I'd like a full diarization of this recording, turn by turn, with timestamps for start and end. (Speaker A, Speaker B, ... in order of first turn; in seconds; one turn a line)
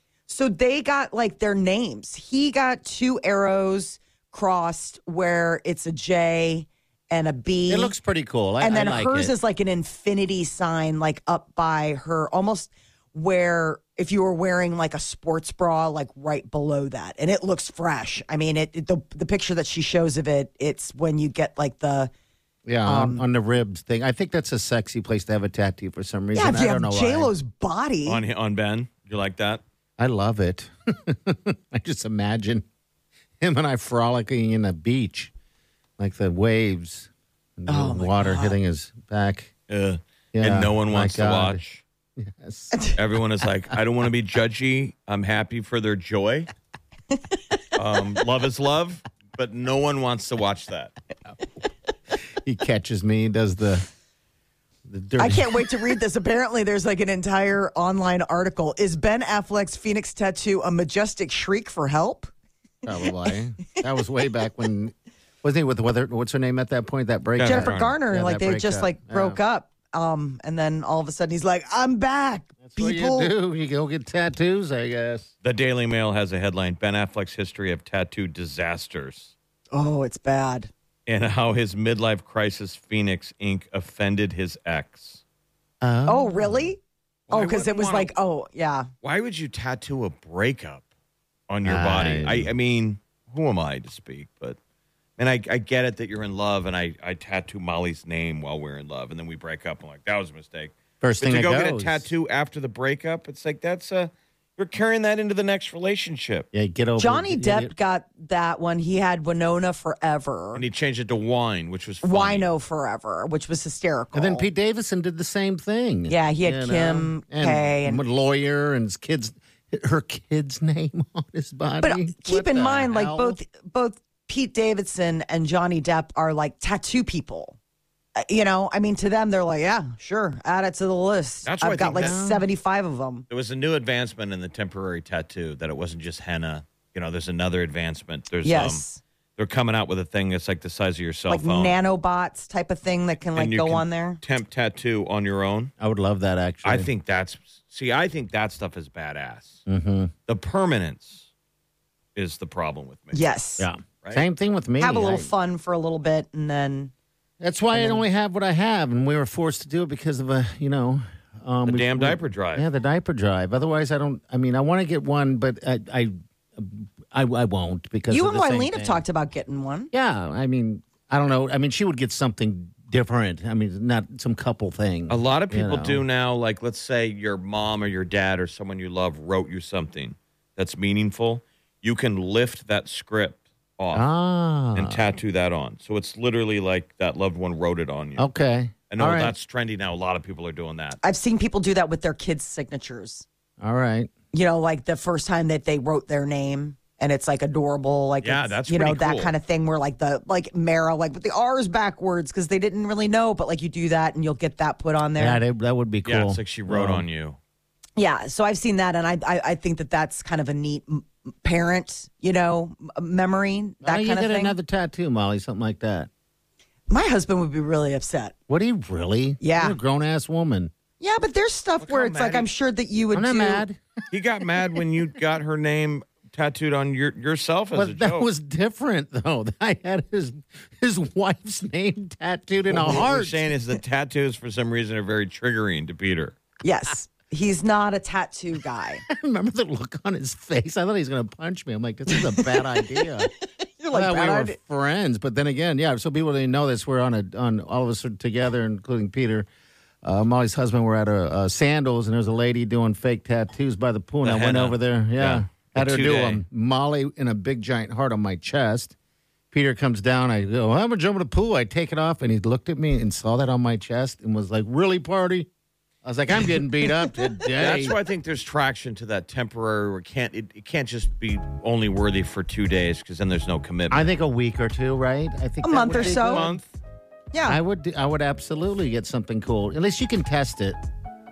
Speaker A: 0.3-7.9
Speaker B: 7.7-9.3
Speaker A: 8.6-22.1
Speaker B: 22.6-27.3
Speaker A: 22.8-23.2
Speaker A: 26.3-28.2
Speaker C: 28.1-29.6
Speaker B: 30.0-32.6
Speaker B: 33.4-35.3
Speaker B: 36.0-39.5
Speaker A: 37.7-38.6
Speaker C: 39.7-41.8
Speaker B: 40.3-41.6
Speaker B: 42.2-42.8
Speaker A: 42.7-43.0
Speaker C: 43.0-46.5
Speaker C: 47.8-50.9
Speaker B: 52.4-53.8
Speaker B: 54.9-55.7
Speaker A: 55.2-62.3
Speaker B: 62.8-69.4
Speaker C: 67.4-68.0
Speaker A: 67.4-73.3
Speaker B: 72.6-75.3
Speaker C: 75.4-79.3
Speaker A: 79.7-80.7
Speaker C: 81.1-85.2
Speaker B: 85.8-86.7
Speaker A: 86.1-88.9
Speaker C: 87.3-88.1
Speaker C: 89.0-90.8
Speaker C: 91.5-94.6
Speaker B: 91.6-92.5
Speaker C: 95.2-106.5
Speaker B: 101.0-102.1
Speaker B: 106.5-107.7
Speaker A: 107.0-110.6
Speaker C: 110.5-112.5
Speaker A: 112.0-114.5
Speaker B: 114.1-123.4
Speaker A: 116.1-118.0
Speaker A: 121.8-127.5
Speaker A: 128.2-133.2
Speaker C: 131.4-132.2
Speaker B: 131.9-132.4
Speaker C: 133.3-138.8
Speaker A: 138.4-139.0
Speaker C: 139.4-141.8
Speaker A: 141.3-144.2
Speaker C: 143.3-145.7
Speaker B: 145.8-146.9
Speaker C: 146.6-149.6
Speaker B: 149.7-150.1
Speaker C: 150.3-151.2
Speaker C: 152.1-153.3
Speaker A: 153.1-153.7
Speaker B: 153.6-155.3
Speaker A: 154.8-156.9
Speaker B: 157.4-169.0
Speaker A: 157.7-158.0
Speaker C: 161.7-162.7
Speaker A: 168.1-169.9
Speaker B: 169.9-176.0
Speaker C: 175.1-184.1
Speaker B: 183.9-185.0
Speaker C: 184.7-188.3
Speaker B: 188.2-189.3
Speaker C: 188.9-191.0
Speaker A: 191.0-193.2
Speaker B: 193.6-194.1
Speaker A: 194.3-205.4
Speaker C: 198.2-199.3
Speaker B: 205.2-207.1
Speaker C: 206.0-207.4
Speaker A: 208.0-214.6
Speaker B: 213.8-216.1
Speaker A: 216.9-218.3
Speaker B: 218.5-220.7
Speaker A: 219.4-219.8
Speaker A: 221.0-223.6
Speaker C: 221.8-222.5
Speaker B: 223.1-223.8
Speaker C: 224.1-228.3
Speaker B: 227.7-233.5
Speaker C: 232.7-236.3
Speaker A: 236.6-239.0
Speaker B: 239.1-243.3
Speaker A: 242.1-243.0
Speaker A: 243.8-244.6
Speaker B: 243.9-249.5
Speaker B: 250.0-258.9
Speaker C: 254.2-256.4
Speaker B: 259.5-265.5
Speaker B: 266.0-267.9
Speaker C: 267.5-274.1
Speaker B: 273.9-276.6
Speaker A: 275.6-276.5
Speaker C: 275.9-276.7
Speaker A: 277.3-277.6
Speaker B: 277.5-280.8